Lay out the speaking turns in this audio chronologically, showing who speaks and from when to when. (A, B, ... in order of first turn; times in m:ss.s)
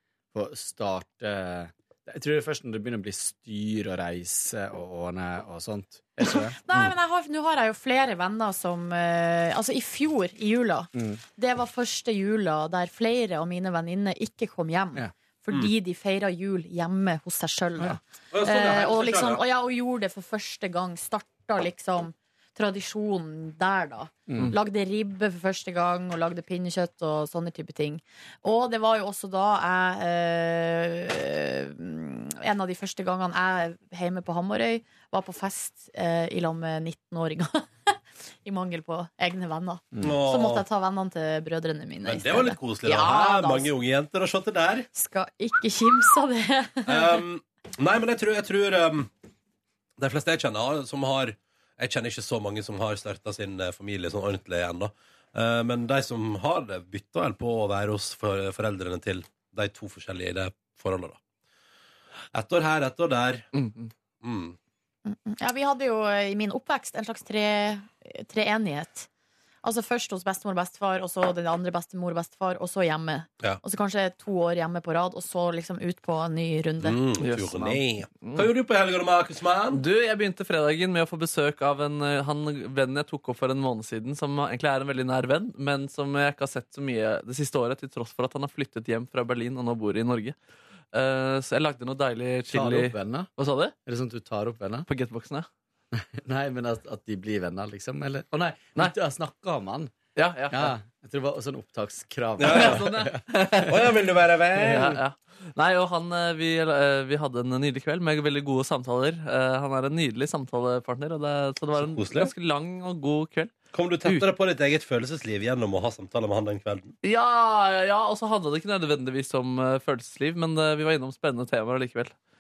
0:00.3-0:06.6 A
0:06.2-0:43.7 B
0:11.0-0:11.2 A
0:18.3-0:19.4 C
0:40.0-0:40.6 C
0:42.0-0:44.9 C
0:44.9-0:47.2 B
0:46.9-0:49.1 C
0:50.0-1:01.2 C
1:02.3-1:03.5 C
1:03.5-1:03.9 D
1:04.2-1:04.6 C
1:05.0-1:09.1 B
1:09.6-1:17.0 B
1:16.8-1:19.8 C
1:17.2-1:18.5 D
1:19.7-1:30.4 D
1:30.9-1:33.8 D
1:32.5-1:33.3 A
1:33.9-1:34.9 A
1:34.9-1:35.5 D
1:35.9-1:39.9 A
1:40.2-1:40.8 D
1:40.5-1:43.2 A
1:42.4-1:42.9 C
1:42.4-1:43.8 D
1:43.7-1:45.0 C
1:44.6-1:54.3 D
1:51.8-1:52.3 C
1:53.7-1:57.0 C
1:57.0-2:02.1 D